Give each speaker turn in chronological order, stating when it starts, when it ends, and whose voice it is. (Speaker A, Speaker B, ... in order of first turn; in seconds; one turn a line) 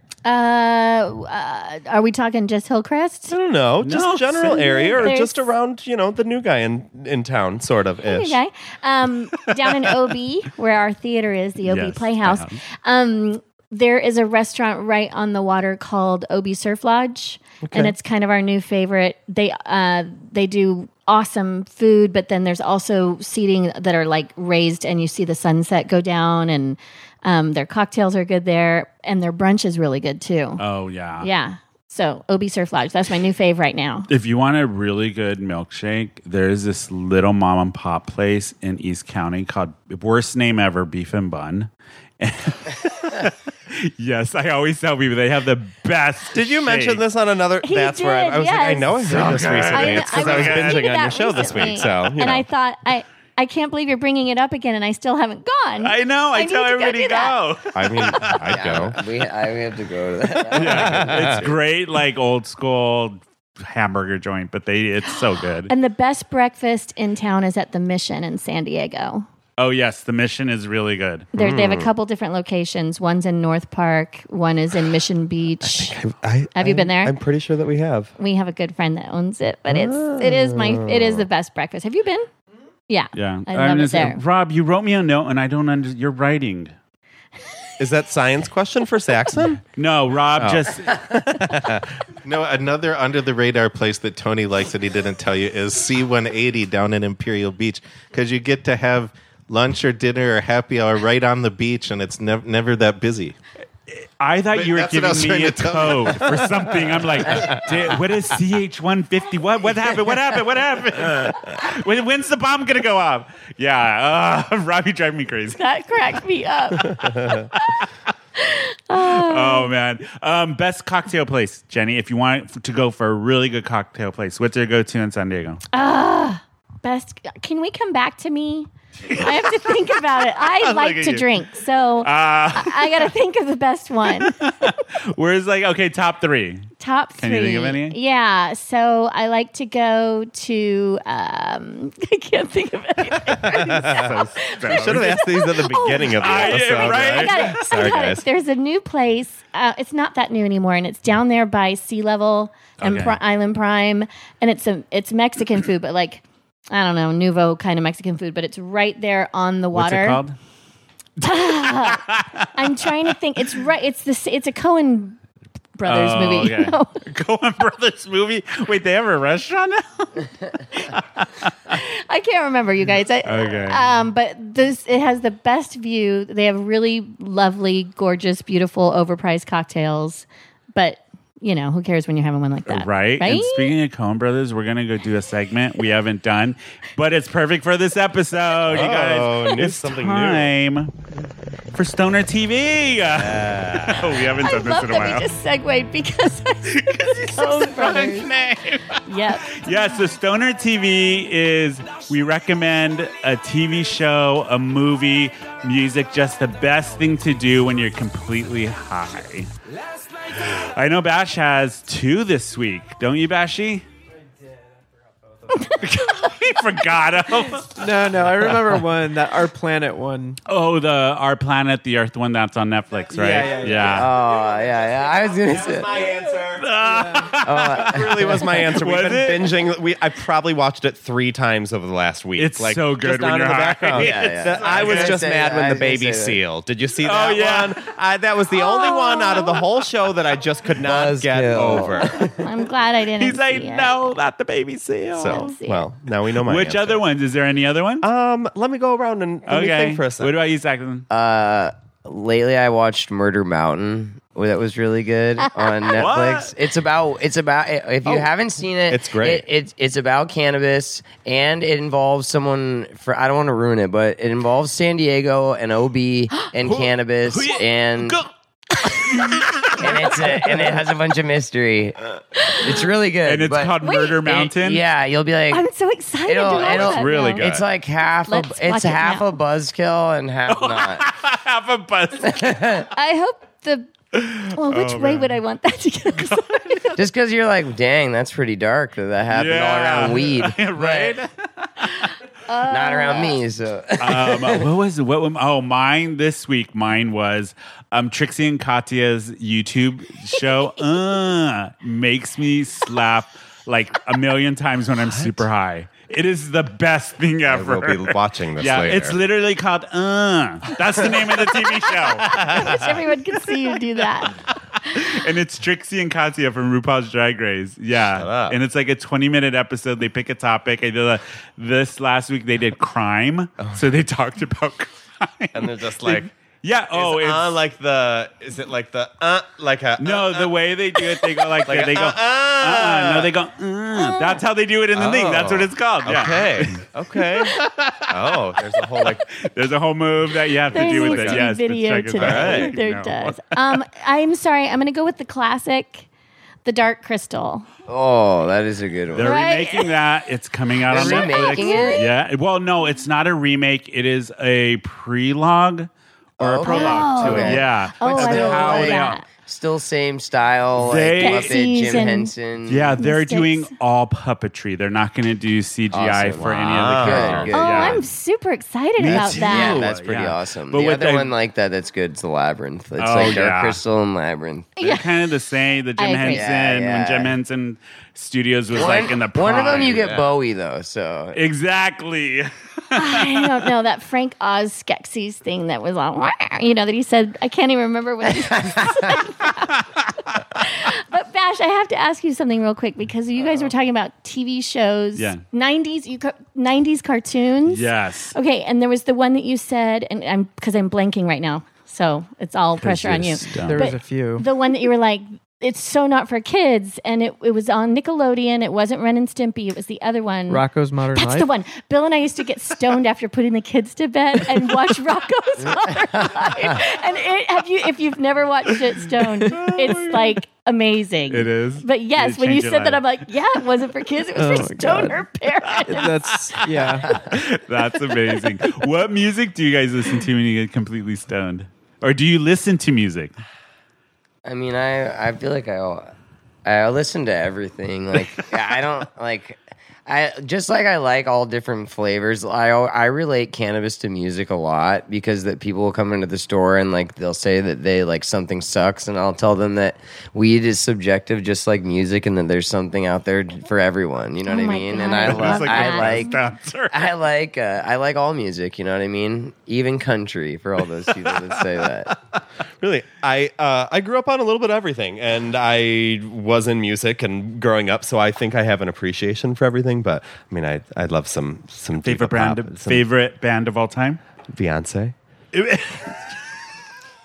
Speaker A: 0.2-3.4
Speaker B: 3.3-8.4
Speaker C: 3.8-5.1
Speaker A: 4.5-5.4
Speaker A: 8.0-30.6
Speaker C: 11.7-12.6
Speaker B: 17.6-17.9
Speaker C: 30.6-31.3
Speaker A: 31.2-34.1
Speaker C: 34.1-41.7
Speaker C: 42.2-47.0
Speaker B: 46.3-52.5
Speaker A: 47.6-57.4
Speaker C: 49.0-50.9
Speaker C: 55.8-58.4
Speaker B: 57.7-59.0
Speaker D: 58.5-61.5
Speaker C: 60.5-65.7
Speaker B: 60.5-61.5
Speaker A: 65.7-69.2
Speaker C: 69.6-71.3
Speaker A: 71.3-76.0
Speaker B: 71.3-71.9
Speaker B: 75.6-78.1
Speaker A: 76.5-77.2
Speaker A: 78.2-82.3
Speaker B: 79.7-81.3
Speaker A: 82.9-84.2
Speaker C: 83.1-86.7
Speaker B: 87.8-89.6
Speaker C: 89.7-91.1
Speaker B: 90.3-91.9
Speaker E: 92.2-103.3
Speaker C: 103.9-115.6
Speaker E: 104.5-107.6
Speaker A: 115.6-117.6
Speaker C: 117.5-117.8
Speaker A: 118.4-119.7
Speaker C: 119.0-125.6
Speaker A: 125.7-134.3
Speaker C: 129.1-131.3
Speaker C: 132.0-133.1
Speaker C: 134.2-137.9
Speaker A: 136.8-160.2
Speaker B: 143.3-148.2
Speaker C: 143.7-145.3
Speaker C: 146.2-147.6
Speaker C: 152.8-153.2
Speaker C: 159.7-160.3
Speaker A: 161.2-165.2
Speaker C: 161.2-162.5
Speaker A: 165.8-166.9
Speaker C: 165.8-171.8
Speaker A: 171.7-183.7
Speaker C: 173.2-173.8
Speaker C: 182.7-190.9
Speaker B: 188.6-190.5
Speaker C: 191.7-195.3
Speaker B: 193.2-194.0
Speaker A: 194.1-198.3
Speaker C: 196.7-209.5
Speaker A: 199.1-200.0
Speaker C: 210.3-213.8
Speaker C: 215.6-217.8
Speaker F: 217.7-220.4
Speaker C: 218.4-218.8
Speaker C: 220.4-224.1
Speaker F: 223.1-224.0
Speaker D: 223.8-225.9
Speaker B: 225.2-242.3
Speaker C: 226.6-229.6
Speaker D: 227.4-228.5
Speaker C: 232.4-235.2
Speaker D: 233.9-236.4
Speaker C: 237.0-237.8
Speaker A: 238.6-239.6
Speaker D: 240.8-242.4
Speaker C: 241.5-242.1
Speaker A: 242.4-244.1
Speaker C: 243.2-245.5
Speaker B: 245.1-247.0
Speaker A: 245.2-245.9
Speaker C: 246.4-248.1
Speaker B: 248.0-250.3
Speaker C: 249.5-251.1
Speaker D: 251.1-268.2
Speaker C: 255.9-256.5
Speaker B: 258.9-259.4
Speaker C: 266.6-268.3
Speaker C: 268.8-270.8
Speaker D: 269.8-272.0
Speaker A: 272.4-272.8
Speaker D: 272.5-275.6
Speaker C: 273.2-274.8
Speaker A: 273.8-274.2
Speaker A: 275.5-277.4
Speaker D: 276.2-281.0
Speaker C: 276.5-277.6
Speaker A: 278.3-279.3
Speaker C: 280.5-282.8
Speaker D: 282.2-282.9
Speaker A: 282.9-287.0
Speaker C: 284.1-285.4
Speaker C: 286.2-286.8
Speaker D: 286.9-291.2
Speaker C: 289.3-291.9
Speaker A: 291.9-293.4
Speaker D: 292.7-294.6
Speaker C: 294.0-312.9
Speaker B: 307.5-309.2
Speaker B: 312.2-312.8
Speaker A: 312.3-314.4
Speaker C: 314.8-327.5
Speaker B: 318.0-318.6
Speaker B: 323.6-324.0
Speaker B: 325.5-326.3
Speaker B: 326.9-333.3
Speaker C: 330.0-338.1
Speaker A: 333.9-334.4
Speaker B: 334.9-339.2
Speaker C: 339.0-343.7
Speaker B: 340.7-341.4
Speaker A: 340.7-346.1
Speaker B: 342.1-342.7
Speaker A: 346.6-347.7
Speaker D: 347.9-349.3
Speaker C: 349.1-355.9
Speaker A: 349.2-349.9
Speaker D: 350.9-352.1
Speaker A: 350.9-352.1
Speaker D: 356.4-363.0
Speaker C: 356.4-359.2
Speaker A: 356.6-359.2
Speaker C: 360.8-362.1
Speaker A: 361.2-362.3
Speaker C: 362.7-368.0
Speaker A: 363.0-363.7
Speaker D: 365.9-368.0
Speaker B: 366.4-367.5
Speaker A: 367.5-369.8
Speaker C: 369.0-371.3
Speaker D: 369.1-374.7
Speaker C: 373.0-373.8
Speaker A: 374.8-375.1
Speaker C: 374.8-380.1
Speaker A: 376.0-376.4
Speaker D: 376.2-377.3
Speaker D: 378.7-381.4
Speaker B: 379.4-380.3
Speaker C: 381.3-383.6
Speaker A: 382.9-427.1
Speaker C: 395.1-395.4
Speaker C: 397.6-398.3
Speaker C: 402.8-403.9
Speaker F: 403.5-404.4
Speaker F: 410.5-411.5
Speaker D: 415.7-416.8
Speaker C: 419.4-420.4
Speaker C: 421.3-423.1
Speaker F: 424.4-425.2
Speaker F: 425.8-427.1
Speaker C: 426.6-433.3
Speaker D: 434.4-436.1
Speaker D: 436.6-456.3
Speaker A: 454.4-456.3
Speaker C: 455.2-457.1
Speaker D: 456.9-462.1
Speaker B: 462.8-473.0
Speaker C: 472.0-474.2
Speaker B: 474.5-475.1
Speaker C: 475.5-476.4